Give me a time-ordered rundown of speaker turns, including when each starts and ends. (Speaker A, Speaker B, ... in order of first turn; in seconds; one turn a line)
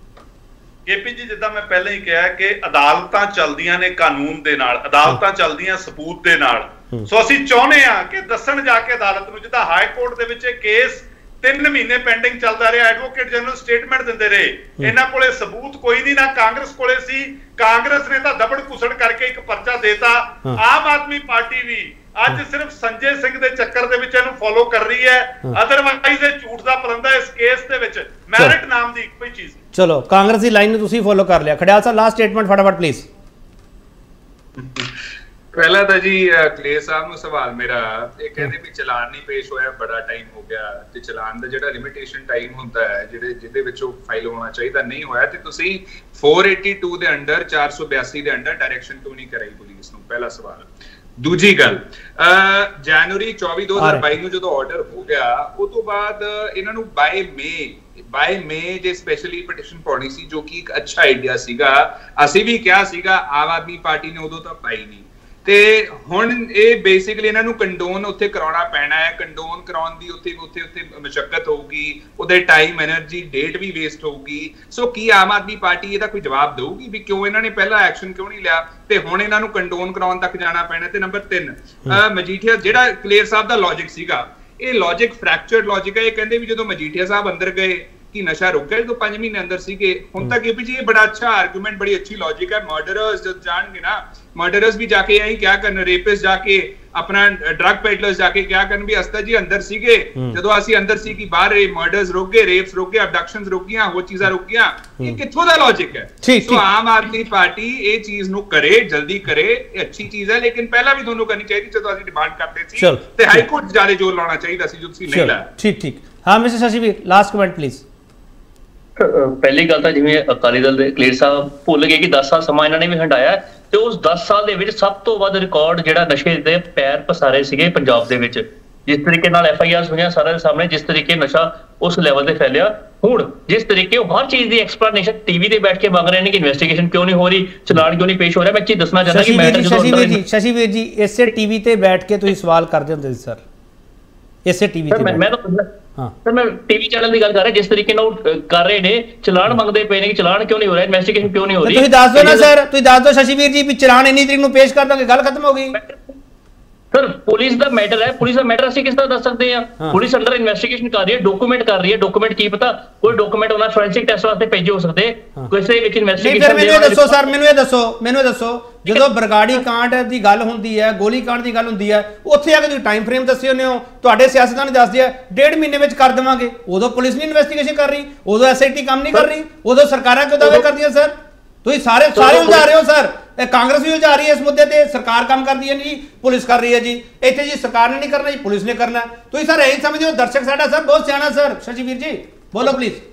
Speaker A: 0.9-29.6
Speaker B: 29.7-33.1
Speaker C: 34.6-34.9
Speaker C: 35.5-115.5
Speaker B: 53.8-54.1
Speaker B: 106.2-106.7
Speaker B: 112.8-113.4
Speaker B: 115.1-117.8
Speaker D: 119.0-140.2
Speaker B: 139.1-143.4
Speaker B: 144.4-145.2
Speaker D: 144.9-145.7
Speaker D: 146.2-152.5
Speaker B: 151.6-155.8
Speaker D: 155.7-156.2
Speaker D: 156.9-167.2
Speaker B: 166.2-193.0
Speaker D: 182.2-182.6